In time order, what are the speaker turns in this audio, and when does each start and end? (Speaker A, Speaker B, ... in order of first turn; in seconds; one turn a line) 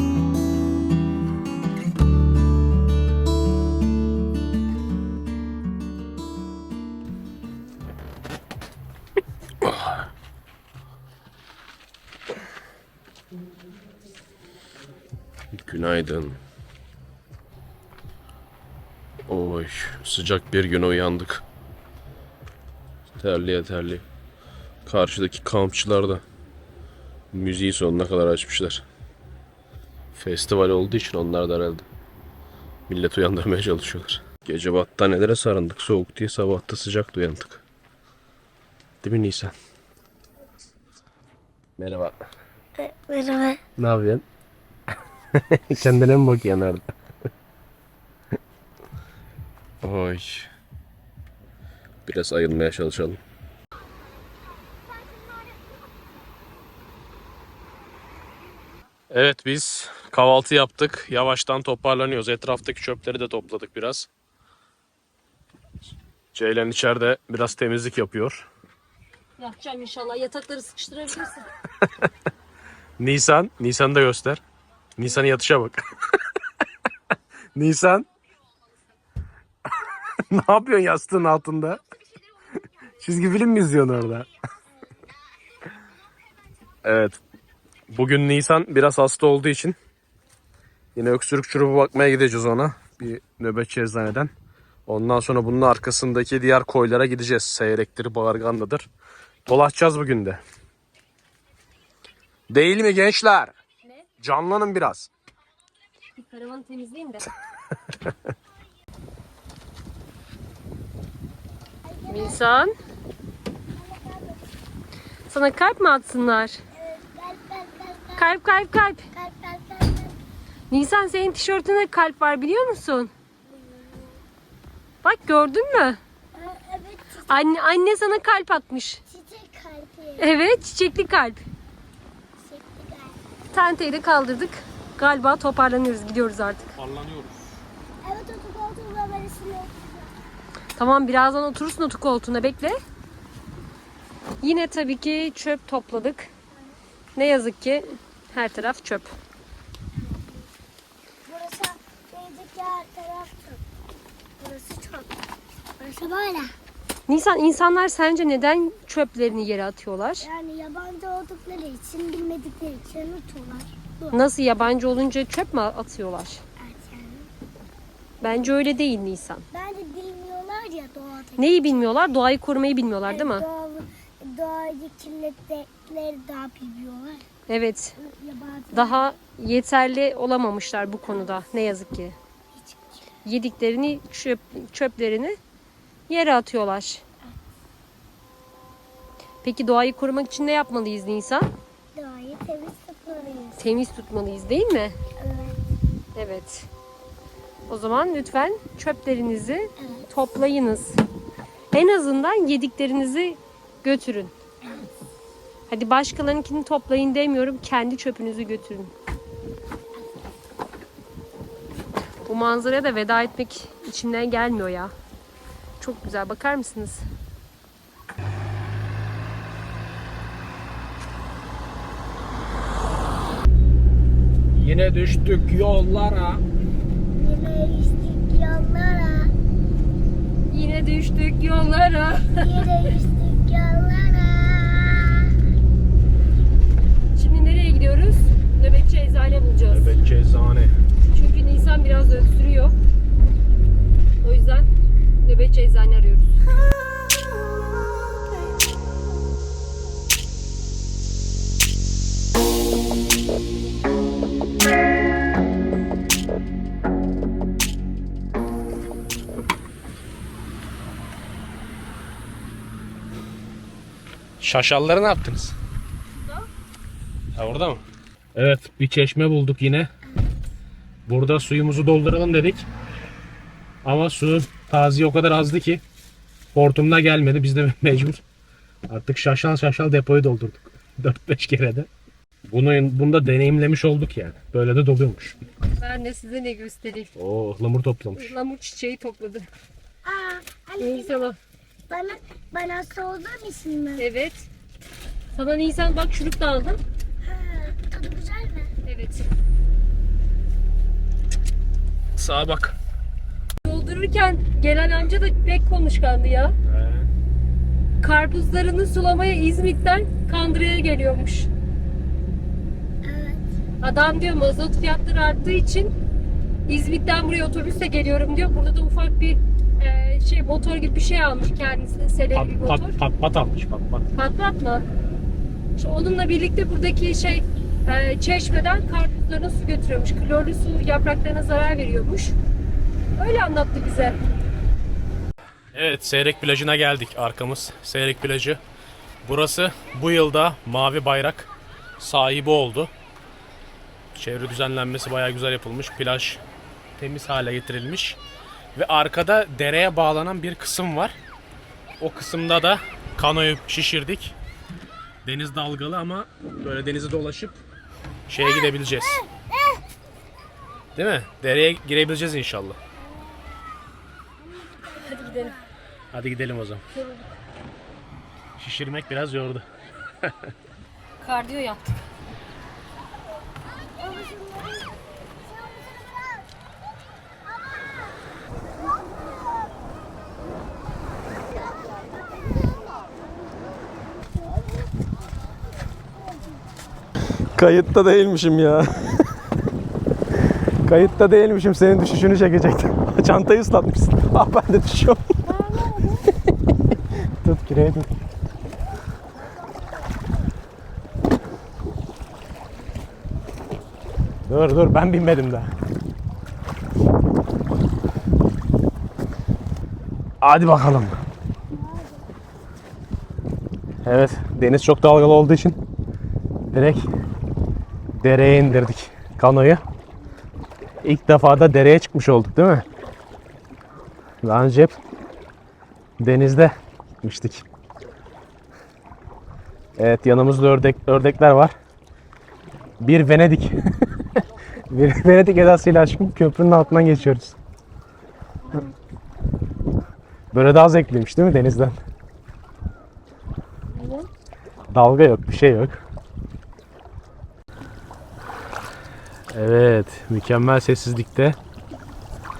Speaker A: 9.6-10.1
Speaker A: 15.5-16.4
Speaker A: 19.3-21.4
Speaker A: 23.2-24.0
Speaker A: 24.9-26.2
Speaker A: 27.3-28.8
Speaker A: 30.1-31.9
Speaker A: 32.9-37.6
Speaker A: 39.0-39.5
Speaker A: 41.8-42.2
Speaker B: 42.8-43.6
Speaker A: 43.8-44.2
Speaker A: 45.3-46.8
Speaker A: 49.8-50.5
Speaker A: 52.1-53.2
Speaker A: 59.1-64.1
Speaker A: 66.3-68.5
Speaker C: 69.4-71.5
Speaker A: 73.0-74.4
Speaker A: 75.0-75.8
Speaker A: 77.5-78.1
Speaker A: 80.2-81.8
Speaker A: 83.0-84.3
Speaker A: 86.8-87.2
Speaker A: 87.9-89.8
Speaker A: 91.0-94.3
Speaker A: 94.9-98.9
Speaker A: 99.5-100.4
Speaker A: 102.5-103.5
Speaker A: 104.2-105.1
Speaker C: 106.2-107.3
Speaker B: 111.8-112.6
Speaker C: 112.1-112.7
Speaker B: 113.8-114.5
Speaker C: 115.3-116.6
Speaker B: 116.7-118.3
Speaker C: 118.2-119.1
Speaker B: 119.1-120.2
Speaker C: 120.7-123.1
Speaker B: 123.5-124.2
Speaker C: 125.0-126.0
Speaker B: 126.3-127.5
Speaker C: 127.3-129.0
Speaker B: 129.1-130.3
Speaker C: 130.2-131.4
Speaker B: 132.4-133.2
Speaker C: 133.5-136.7
Speaker A: 136.8-137.5
Speaker B: 138.0-140.1
Speaker C: 140.8-142.8
Speaker C: 144.4-146.3
Speaker C: 147.2-149.1
Speaker B: 150.0-150.4
Speaker B: 151.3-153.6
Speaker B: 154.4-155.1
Speaker B: 155.8-156.5
Speaker C: 157.1-160.3
Speaker B: 160.2-164.2
Speaker C: 164.1-166.4
Speaker B: 166.6-167.3
Speaker C: 168.2-169.4
Speaker B: 169.5-171.9
Speaker C: 171.4-173.4
Speaker B: 173.1-177.2
Speaker C: 177.5-178.0
Speaker B: 178.0-179.2
Speaker C: 178.7-182.2
Speaker B: 182.6-182.9
Speaker C: 183.2-185.4
Speaker C: 186.1-187.0
Speaker C: 189.4-191.5
Speaker B: 191.9-193.6
Speaker C: 193.6-194.9
Speaker B: 195.2-195.6
Speaker C: 196.2-196.7
Speaker C: 197.7-201.0
Speaker B: 199.8-200.1
Speaker C: 201.7-204.3
Speaker B: 204.6-204.9
Speaker C: 205.7-208.9
Speaker C: 212.3-214.9
Speaker C: 215.8-217.1
Speaker A: 224.6-226.4
Speaker B: 227.2-229.3
Speaker C: 230.5-232.7
Speaker B: 232.4-235.3
Speaker C: 237.2-239.9
Speaker A: 239.7-240.7
Speaker C: 241.1-242.8
Speaker C: 244.2-244.7
Speaker C: 245.2-246.4
Speaker A: 264.4-265.5
Speaker C: 266.1-266.5
Speaker A: 267.4-267.8
Speaker A: 268.4-269.9
Speaker A: 271.1-272.7
Speaker A: 273.9-275.8
Speaker A: 276.5-278.2
Speaker A: 278.9-281.9
Speaker A: 282.5-285.4
Speaker C: 285.8-287.1
Speaker A: 287.2-288.4
Speaker C: 288.2-289.5
Speaker B: 290.0-291.3
Speaker C: 290.8-291.4
Speaker B: 291.9-294.1
Speaker C: 294.0-294.5
Speaker C: 295.3-296.8
Speaker B: 297.2-298.7
Speaker C: 298.9-299.3
Speaker A: 302.2-302.8
Speaker C: 303.6-306.5
Speaker A: 306.6-307.1
Speaker C: 308.0-311.5
Speaker B: 313.0-313.5
Speaker C: 313.8-315.9
Speaker C: 316.7-323.0
Speaker A: 322.4-324.1
Speaker C: 324.1-324.9
Speaker C: 325.8-332.4
Speaker C: 333.2-334.2
Speaker A: 335.7-338.6
Speaker A: 339.2-341.5
Speaker A: 342.0-342.9
Speaker A: 344.1-346.4
Speaker A: 347.0-348.2
Speaker A: 348.8-351.2
Speaker A: 352.0-354.4
Speaker A: 355.2-357.6
Speaker A: 358.3-359.2
Speaker B: 358.4-359.8
Speaker A: 361.0-362.8
Speaker B: 363.0-363.8
Speaker B: 364.4-365.7
Speaker C: 365.1-365.6
Speaker A: 366.1-366.8
Speaker C: 366.9-367.2
Speaker A: 368.6-369.6
Speaker C: 371.2-371.9
Speaker B: 373.6-376.5
Speaker B: 377.5-379.8
Speaker B: 381.4-384.9
Speaker B: 386.1-386.6
Speaker A: 387.6-389.4
Speaker A: 390.4-395.3
Speaker C: 395.4-396.3
Speaker A: 397.4-398.1
Speaker B: 399.6-400.2
Speaker A: 404.4-405.7
Speaker A: 410.4-411.2
Speaker B: 411.7-412.3
Speaker A: 414.0-415.8
Speaker A: 416.7-417.1
Speaker A: 418.2-419.8
Speaker A: 421.0-422.9
Speaker A: 424.4-425.0
Speaker A: 426.2-427.6
Speaker A: 430.0-431.7
Speaker A: 433.0-434.0
Speaker A: 434.9-437.6
Speaker A: 440.5-442.0
Speaker C: 444.0-444.3
Speaker A: 444.9-446.0
Speaker A: 449.5-451.6